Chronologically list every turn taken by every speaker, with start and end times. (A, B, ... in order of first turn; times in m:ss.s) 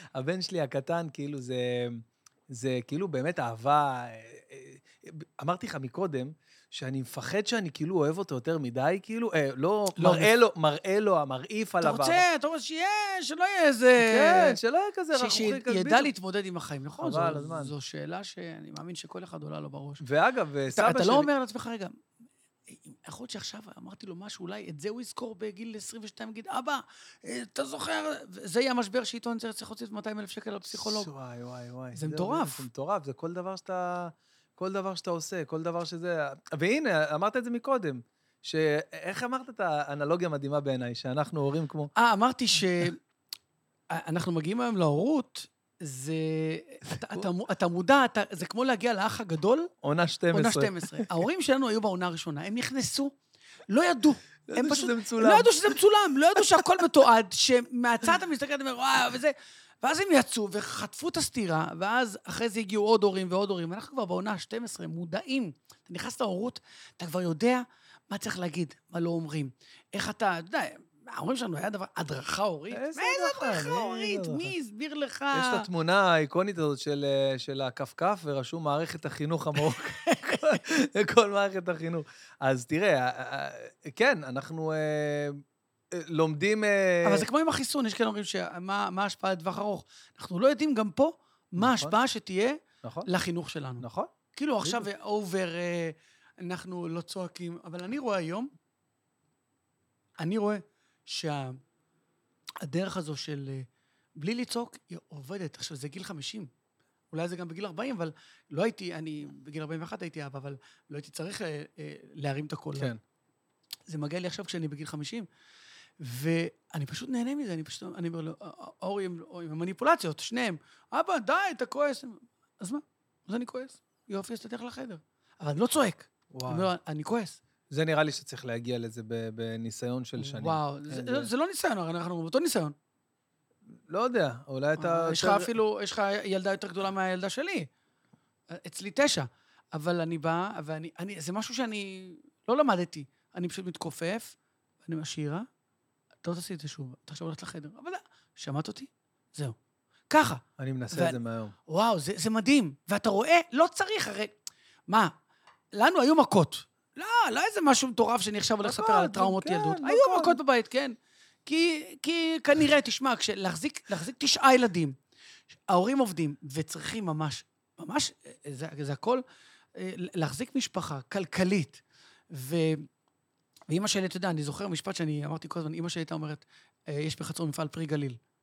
0:00.1-0:12.2 A
0:10.0-0:10.3 B
0:11.8-0:14.6 B
0:14.0-0:16.1 A
0:15.1-0:20.0 B
0:17.0-0:17.7 A
0:20.0-0:21.3 A
0:20.7-0:22.0 B
0:22.7-0:31.1 B
0:30.7-0:41.9 A
0:31.9-0:32.6 B
0:42.0-0:43.0 B
0:43.9-0:49.7 B
0:47.0-0:47.3 A
0:49.8-0:51.2 A
0:50.3-0:53.1 B
0:53.7-1:15.7 B
0:54.5-0:55.8 A
0:56.4-0:56.8 A
1:12.7-1:14.5 A
1:15.3-1:25.4 A
1:19.6-1:20.6 B
1:25.9-1:27.3 A
1:27.0-1:38.5 B
1:31.6-1:31.9 A
1:32.8-1:33.1 A
1:33.8-1:34.9 A
1:40.2-1:41.6 B
1:42.6-1:46.5 B
1:47.1-1:52.9 B
1:52.7-1:53.0 A
1:53.9-1:55.2 B
1:56.0-2:07.4 B
2:06.3-2:06.7 A
2:07.7-2:11.3 A
2:10.2-2:12.8 B
2:13.9-2:15.5 A
2:14.8-2:17.7 B
2:18.5-2:25.5 B
2:26.2-2:29.6 B
2:30.1-2:34.3 B
2:30.6-2:31.5 A
2:34.9-2:35.1 B
2:35.7-2:45.0 B
2:38.6-2:40.4 A
2:45.5-2:49.2 B
2:49.8-2:52.9 B
2:53.7-2:58.2 B